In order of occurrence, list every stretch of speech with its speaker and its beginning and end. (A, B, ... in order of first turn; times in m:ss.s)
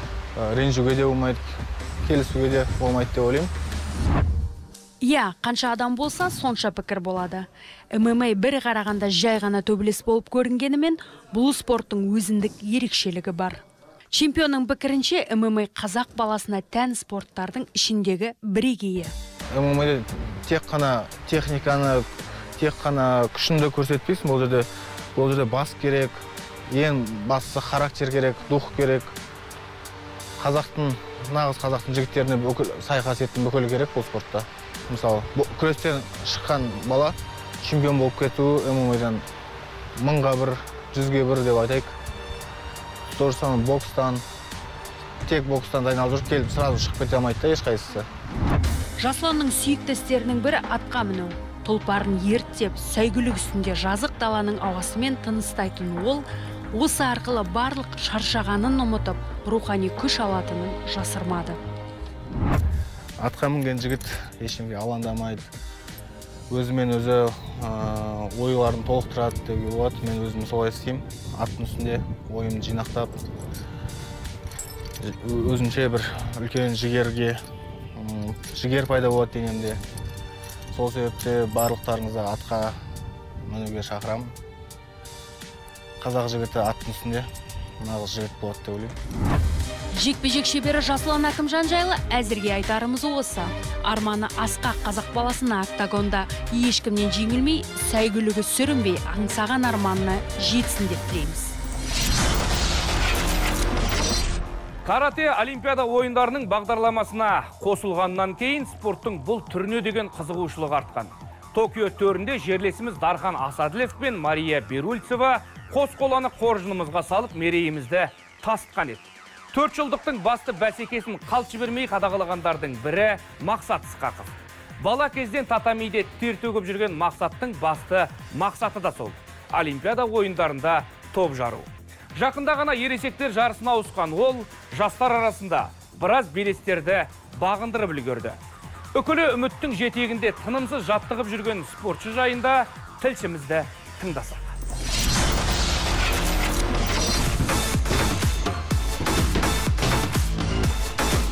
0:00.4-0:03.5 A
0:05.0-0:19.1 B
0:19.5-0:29.1 A
0:30.4-0:39.2 A
0:40.0-0:41.9 A
0:43.1-0:44.2 A
0:45.2-0:48.1 A
0:49.0-1:01.6 B
1:03.2-1:05.5 A
1:06.5-1:13.1 A
1:15.0-1:17.4 A
1:18.0-1:19.8 A
1:20.7-1:22.8 A
1:23.4-1:24.3 A
1:26.0-1:27.3 A
1:27.8-1:28.9 A
1:29.9-1:41.6 B
1:44.8-2:18.4 C
2:18.9-2:24.6 C